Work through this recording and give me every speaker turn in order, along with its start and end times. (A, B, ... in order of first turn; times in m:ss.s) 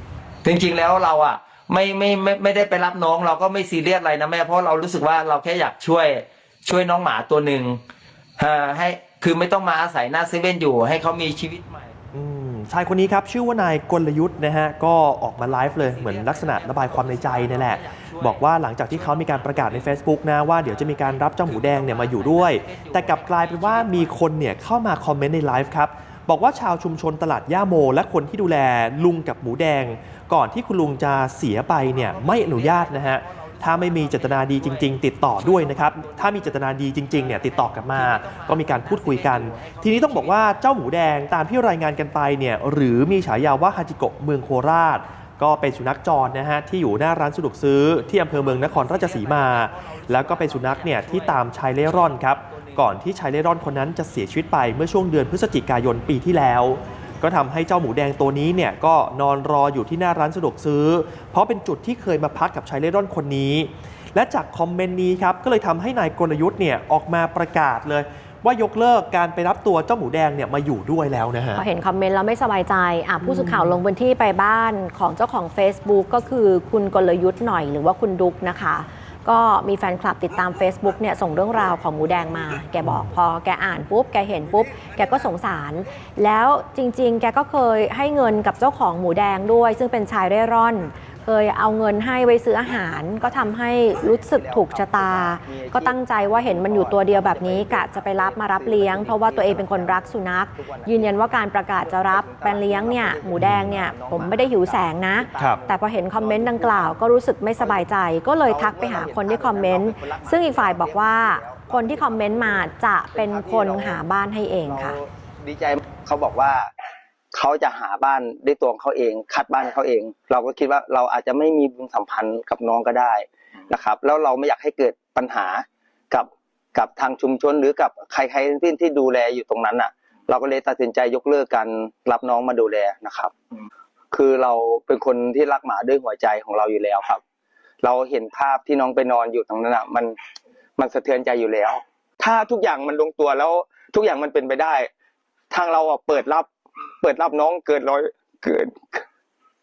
0:00.4-0:07.8 A
0:08.4-0:12.0 A
0:12.1-1:11.6 B
0:15.5-0:20.0 A
0:20.6-0:24.2 A
0:31.8-0:40.5 A
0:48.4-0:52.8 A
1:11.6-1:55.0 C
1:13.2-1:13.8 B
1:22.8-1:23.1 B
1:34.3-1:47.0 D
1:43.4-1:43.8 B
1:47.6-1:47.9 D
1:48.5-1:54.0 D
1:54.7-1:56.7 D
1:57.3-2:13.3 D
2:14.1-2:17.2 D
2:17.8-2:20.2 D
2:20.8-2:24.9 D
2:25.5-2:26.5 D
2:27.0-2:29.1 D